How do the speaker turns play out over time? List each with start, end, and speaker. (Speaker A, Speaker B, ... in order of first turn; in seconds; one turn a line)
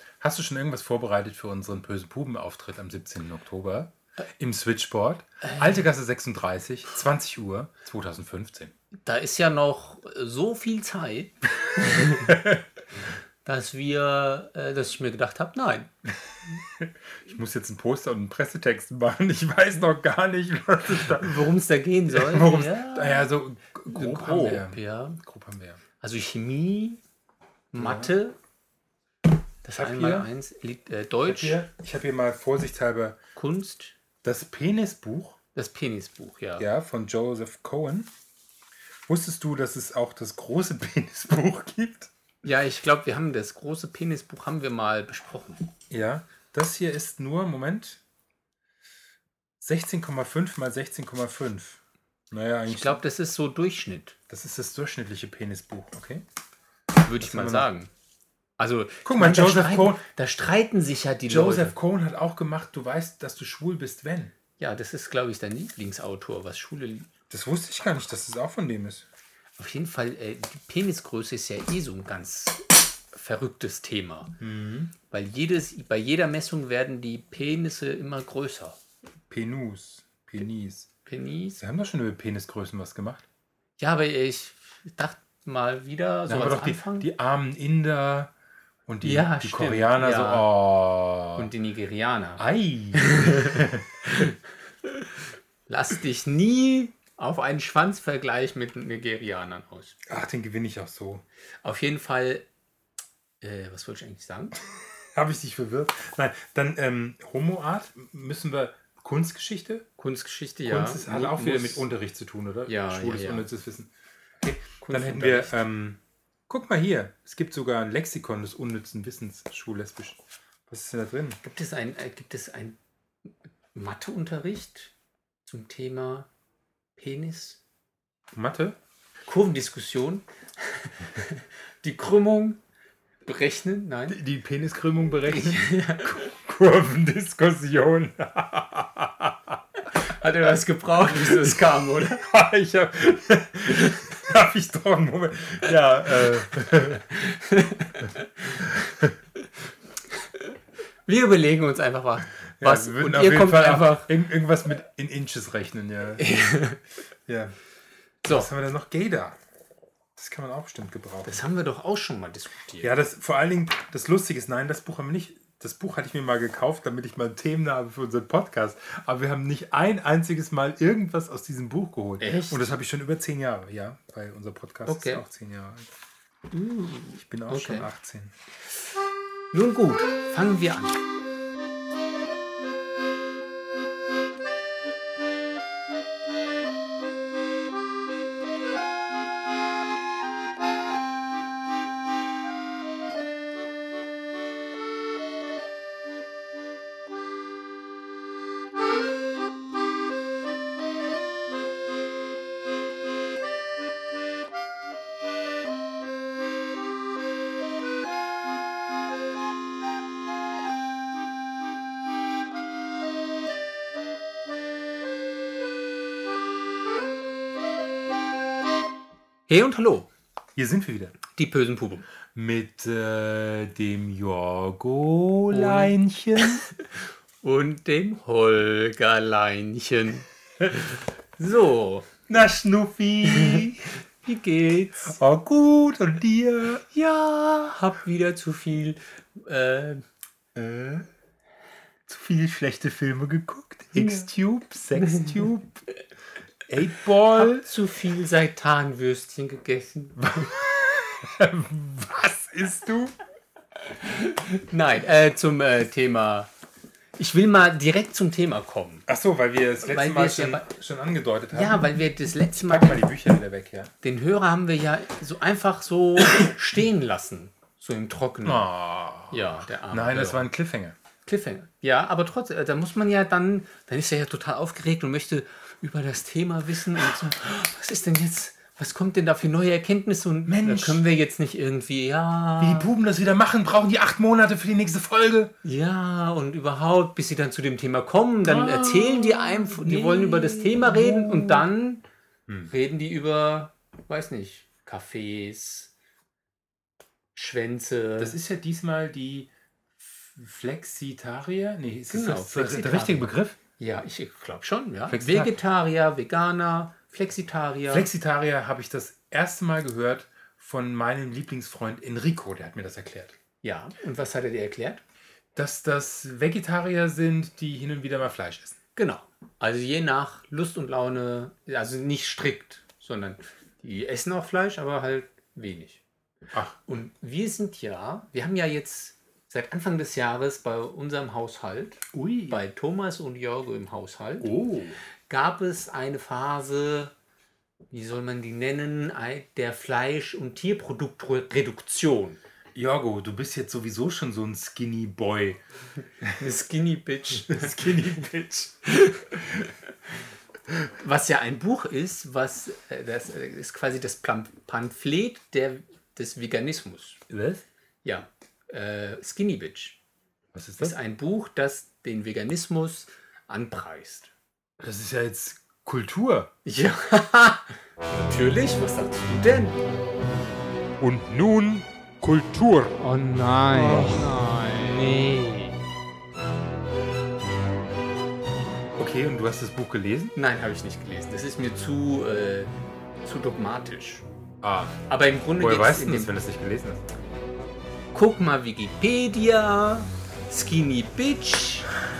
Speaker A: 0.2-8.7
Speaker B: 5.4-5.8
Speaker B: 9.0-12.4
Speaker A: 11.8-12.6
Speaker B: 13.4-15.9
Speaker A: 16.6-21.5
Speaker B: 20.9-23.3
Speaker A: 22.1-25.8
Speaker B: 23.9-25.2
Speaker B: 26.0-27.0
Speaker B: 27.7-28.4
Speaker A: 27.8-28.1
Speaker B: 29.6-31.6
Speaker A: 29.8-30.3
Speaker A: 31.2-33.2
Speaker B: 33.4-34.0
Speaker A: 34.2-35.4
Speaker B: 35.5-36.7
Speaker A: 36.6-38.1
Speaker A: 39.0-42.1
Speaker B: 42.4-45.7
Speaker A: 45.9-48.0
Speaker A: 49.6-53.0
Speaker B: 52.6-54.1
Speaker A: 54.3-56.2
Speaker B: 57.0-57.9
Speaker A: 57.2-57.7
Speaker B: 58.6-61.7
Speaker A: 59.0-60.0
Speaker A: 61.3-64.3
Speaker B: 64.6-67.1
Speaker A: 67.3-69.1
Speaker B: 69.6-74.3
Speaker A: 74.4-74.9
Speaker B: 75.1-78.8
Speaker A: 79.3-80.9
Speaker B: 81.0-81.6
Speaker A: 81.6-83.2
Speaker B: 83.8-87.1
Speaker A: 86.3-88.3
Speaker A: 88.8-91.5
Speaker B: 89.0-90.5
Speaker B: 91.3-92.4
Speaker A: 92.4-93.8
Speaker B: 92.9-94.3
Speaker B: 95.7-100.0
Speaker A: 100.1-101.2
Speaker B: 101.6-102.5
Speaker B: 103.4-104.6
Speaker A: 104.6-109.8
Speaker B: 110.0-111.8
Speaker A: 110.7-113.9
Speaker B: 112.7-113.5
Speaker B: 114.4-115.6
Speaker A: 114.7-121.4
Speaker B: 121.4-124.9
Speaker B: 125.5-126.3
Speaker B: 127.0-127.6
Speaker A: 128.3-128.8
Speaker B: 129.2-132.6
Speaker B: 133.2-134.2
Speaker A: 134.1-139.6
Speaker B: 135.3-136.2
Speaker B: 139.9-142.2
Speaker A: 141.1-147.2
Speaker B: 147.1-148.9
Speaker A: 148.7-149.1
Speaker B: 150.1-150.5
Speaker B: 151.1-154.1
Speaker A: 152.6-156.3
Speaker B: 156.2-156.8
Speaker A: 157.3-157.5
Speaker B: 158.2-158.5
Speaker A: 158.3-159.4
Speaker A: 160.2-161.4
Speaker B: 161.2-162.9
Speaker A: 162.8-175.9
Speaker B: 172.2-172.6
Speaker B: 174.9-175.2
Speaker B: 176.5-177.9
Speaker A: 177.2-178.3
Speaker B: 179.5-181.0
Speaker B: 219.5-220.1
Speaker A: 220.6-221.2
Speaker B: 221.3-222.0
Speaker A: 222.3-226.7
Speaker B: 225.5-230.3
Speaker B: 231.4-232.1
Speaker A: 232.3-234.0
Speaker B: 233.2-233.6
Speaker B: 234.2-235.2
Speaker A: 235.0-236.8
Speaker B: 236.9-240.1
Speaker A: 240.5-241.1
Speaker A: 242.1-245.8
Speaker B: 243.9-244.3
Speaker B: 244.9-245.4
Speaker A: 246.7-247.7
Speaker B: 247.3-250.5
Speaker A: 250.2-253.2
Speaker B: 253.8-256.5
Speaker B: 257.2-259.1
Speaker A: 259.1-262.0
Speaker B: 259.8-260.7
Speaker B: 261.5-263.0
Speaker A: 262.5-263.9
Speaker B: 264.0-268.6
Speaker A: 268.4-270.9
Speaker B: 269.3-270.5
Speaker B: 271.2-282.9
Speaker A: 280.4-281.0
Speaker A: 282.6-285.5
Speaker B: 285.6-292.0
Speaker A: 288.4-291.6
Speaker B: 292.7-295.9
Speaker B: 297.3-298.4
Speaker A: 298.2-303.6
Speaker B: 302.1-308.1
Speaker A: 305.1-305.5
Speaker A: 307.9-313.3
Speaker B: 313.6-315.0
Speaker A: 315.5-318.8
Speaker B: 318.9-326.0
Speaker B: 326.9-334.5
Speaker A: 332.1-332.6
Speaker A: 334.4-335.0
Speaker B: 335.3-337.1
Speaker B: 337.9-342.4
Speaker A: 342.7-345.6
Speaker B: 346.4-347.8
Speaker A: 347.5-349.7
Speaker B: 351.0-357.2
Speaker A: 357.3-357.6
Speaker B: 358.0-360.0
Speaker A: 360.5-360.9
Speaker B: 360.8-364.3
Speaker A: 364.8-366.5
Speaker B: 366.6-369.8
Speaker A: 371.0-373.1
Speaker B: 373.0-375.8
Speaker A: 373.8-374.4
Speaker A: 379.0-380.3
Speaker B: 380.4-382.7
Speaker B: 383.2-384.3
Speaker A: 384.6-385.0
Speaker B: 385.1-386.3
Speaker A: 385.6-387.0
Speaker B: 388.1-391.9